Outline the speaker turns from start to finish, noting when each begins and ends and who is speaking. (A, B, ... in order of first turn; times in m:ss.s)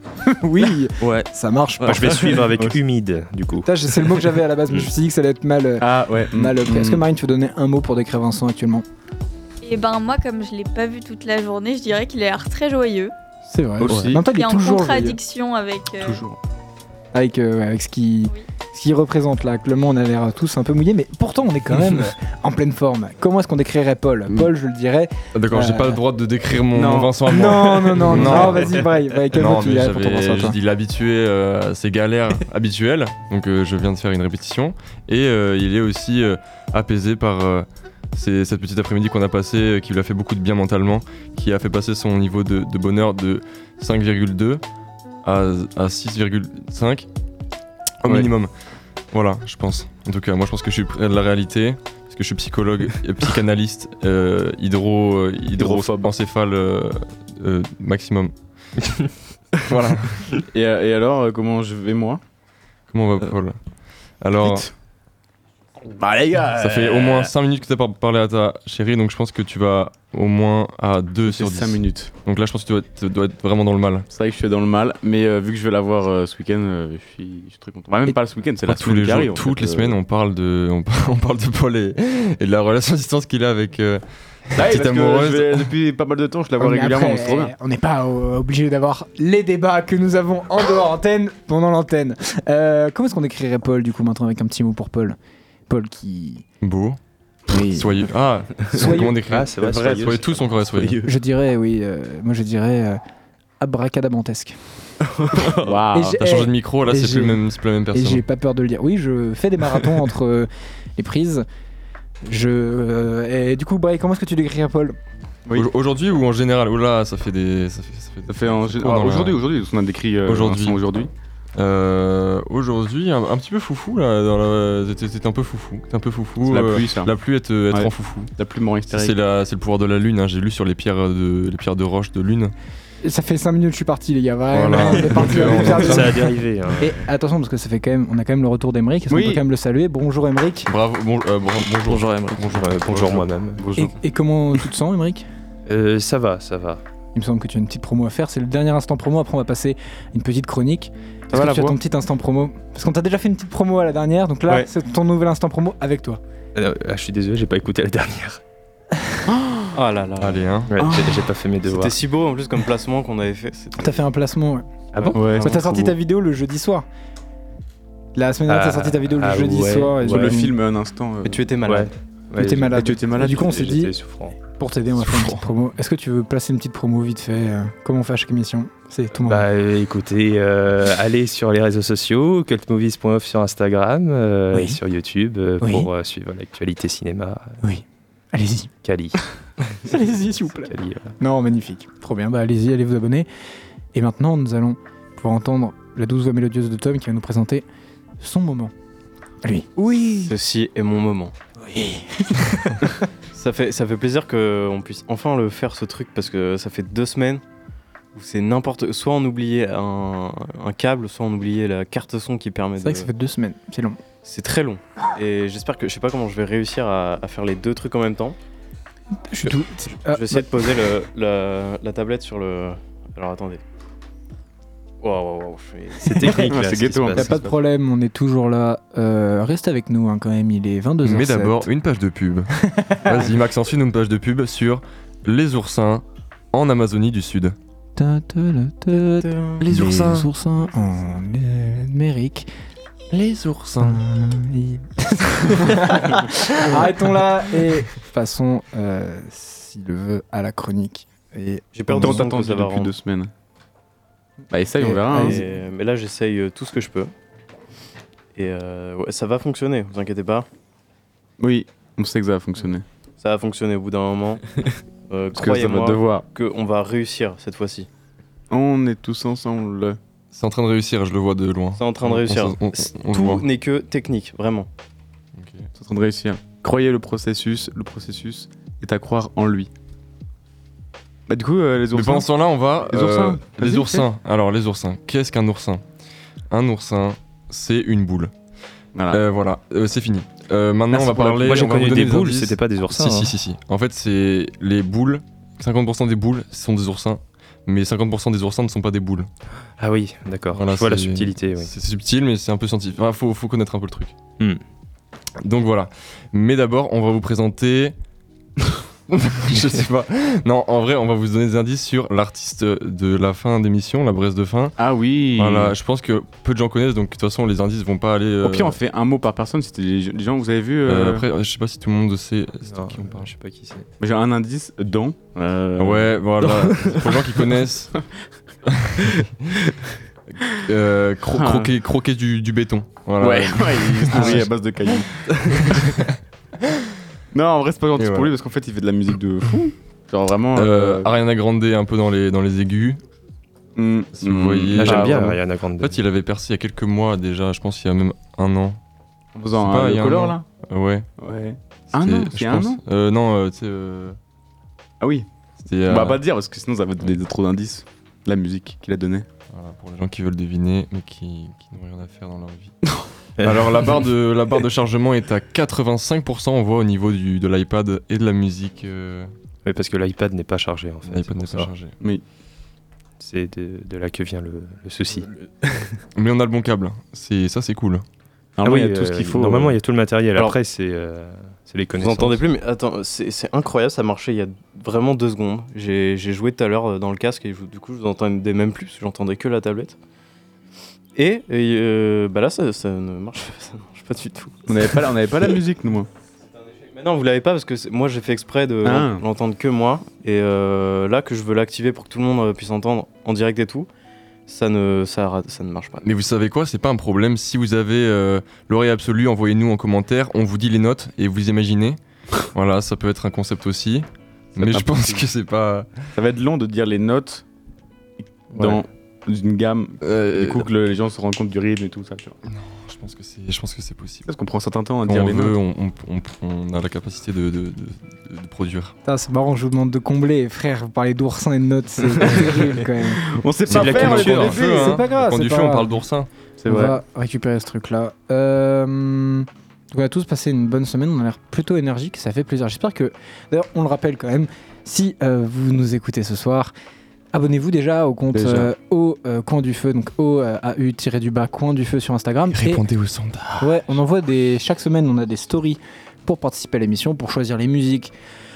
0:00.4-0:02.4 A
0:01.0-0:01.3 B
0:01.8-0:03.7 B
0:03.6-0:08.8 A
0:05.8-0:07.0 C
0:09.6-0:13.1 D
0:13.5-0:15.2 A
0:13.8-0:14.2 C
0:14.2-0:16.2 D
0:16.0-0:16.4 C
0:17.1-0:26.0 A
0:25.3-0:44.6 E
0:26.7-0:28.7 C
0:27.3-0:30.6 A
0:45.2-0:47.1 E
0:48.0-0:48.5 E
0:48.0-0:48.3 C
0:49.1-0:58.3 E
0:55.6-0:56.1 C
0:59.6-1:00.3 E
1:00.5-1:02.2 C
1:02.9-1:03.6 E
1:04.2-1:04.7 E
1:05.9-1:07.3 C
1:06.6-1:14.1 E
1:11.2-1:12.1 C
1:14.1-1:20.0 C
1:18.6-1:25.7 E
1:24.5-1:27.5 C
1:26.6-1:35.2 A
1:35.7-1:36.4 A
1:36.6-1:37.0 E
1:37.5-1:38.0 A
1:37.7-1:41.0 E
1:38.6-1:39.1 A
1:38.8-1:41.0 B
1:39.3-1:40.2 C
1:41.0-1:43.0 A
1:43.6-1:44.6 A
1:45.6-1:46.2 C
1:45.9-1:47.4 A
1:46.2-1:48.2 E
1:47.9-1:51.4 A
1:52.2-1:55.0 A
1:55.6-1:59.4 E
1:58.3-2:01.1 C
2:00.2-2:00.8 E
2:01.6-2:08.3 E
2:06.4-2:07.1 C
2:07.7-2:09.1 C
2:08.9-2:12.5 E
2:13.0-2:20.7 A
2:14.5-2:16.2 E
2:15.4-2:17.0 B
2:19.1-2:19.4 C
2:20.7-2:23.2 E
2:21.6-2:23.7 B
2:23.0-2:23.9 C
2:23.8-2:25.3 A
2:25.6-2:26.8 B
2:27.1-2:36.2 A
2:31.3-2:31.8 C
2:36.5-2:38.4 B
2:39.3-2:39.7 C
2:39.7-2:40.4 F
2:40.2-2:40.7 E
2:40.7-2:42.0 B
2:40.8-2:41.3 C
2:41.6-2:44.0 F
2:43.8-2:44.6 A
2:44.9-2:45.4 B
2:45.0-2:45.6 F
2:45.1-2:45.5 C
2:45.4-2:46.8 A
2:48.1-2:50.5 A
2:48.5-2:50.4 B
2:50.0-2:51.4 C
2:51.2-2:51.9 F
2:51.6-2:54.4 B
2:52.4-2:53.9 A
2:52.7-2:53.5 C
2:54.6-2:59.5 A
2:55.0-2:55.4 E
2:59.2-3:07.6 B
3:05.6-3:05.9 A
3:07.6-3:08.7 A
3:08.8-3:09.8 B
3:09.8-3:13.3 A
3:10.6-3:11.1 B
3:13.9-3:17.6 A
3:18.2-3:18.7 A
3:19.4-3:20.3 A
3:20.2-3:21.3 F
3:21.6-3:22.9 A
3:23.3-3:27.4 F
3:28.1-3:33.1 F
3:32.8-3:34.0 A
3:34.2-3:38.4 F
3:39.3-3:40.4 A
3:40.0-3:43.6 F
3:45.0-3:46.5 F
3:46.0-3:47.6 B
3:46.4-3:47.5 C
3:47.1-3:51.7 A
3:51.0-3:57.5 E
3:52.7-3:53.2 A
3:58.0-4:02.5 A
3:59.2-3:59.6 F
3:59.6-4:00.3 E
4:03.1-4:04.0 E
4:03.8-4:12.2 A
4:11.7-4:12.9 F
4:11.9-4:13.3 C
4:14.5-4:15.4 C
4:14.8-4:15.4 A
4:15.1-4:17.1 F
4:18.3-4:20.5 F
4:21.4-4:22.8 C
4:23.2-4:24.4 F
4:25.1-4:27.9 F
4:25.3-4:26.2 C
4:28.5-4:30.0 C
4:30.3-4:33.4 E
4:31.8-4:34.7 F
4:35.4-4:35.7 E
4:35.8-4:39.7 C
4:41.3-4:44.1 C
4:41.9-4:45.8 E
4:46.5-4:48.3 E
4:48.9-4:49.2 C
4:49.1-4:59.3 E
4:50.9-4:53.3 B
4:50.9-4:51.6 C
4:59.8-5:01.7 B
5:00.5-5:04.1 E
5:05.4-5:07.9 E
5:09.1-5:14.8 E
5:14.8-5:15.8 C
5:15.4-5:18.8 E
5:18.4-5:21.3 C
5:20.8-5:23.3 E
5:22.7-5:23.9 B
5:24.0-5:27.2 C
5:25.8-5:27.9 E
5:28.7-5:29.3 E
5:30.7-5:36.0 E
5:31.3-5:31.7 C
5:33.2-5:36.0 C
5:37.3-5:41.1 C
5:38.0-5:38.3 E
5:40.5-5:43.0 E
5:43.8-5:45.4 C
5:44.2-5:48.8 E
5:44.8-5:46.0 B
5:49.3-5:50.4 C
5:49.5-5:51.1 E
5:51.2-5:52.8 C
5:51.9-5:54.2 E
5:55.0-5:55.3 C
5:55.6-5:56.2 E
5:55.8-5:59.3 C
5:59.5-6:02.7 E
6:03.4-6:04.0 B
6:03.4-6:09.3 E
6:09.6-6:11.7 B
6:11.0-6:12.0 E
6:13.2-6:15.3 B
6:16.1-6:18.0 E
6:18.6-6:19.8 C
6:18.6-6:22.4 B
6:22.0-6:30.0 F
6:31.2-6:35.0 F
6:34.7-6:36.1 C
6:36.5-6:43.9 F
6:38.8-6:39.2 C
6:44.5-6:46.0 F
6:46.0-6:52.0 E
6:52.5-6:56.0 E
6:54.6-6:55.3 C
6:56.1-6:57.4 C
6:58.5-7:02.4 C
7:00.0-7:00.6 E
7:02.4-7:04.3 E
7:04.2-7:05.6 C
7:05.0-7:08.9 E
7:09.0-7:13.2 A
7:13.2-7:15.0 C
7:13.7-7:16.3 E
7:13.7-7:14.2 B
7:13.8-7:15.9 A
7:16.6-7:17.0 C
7:16.6-7:26.7 A
7:27.3-7:32.8 A
7:28.3-7:28.7 C
7:32.5-7:33.8 E
7:33.6-7:38.1 A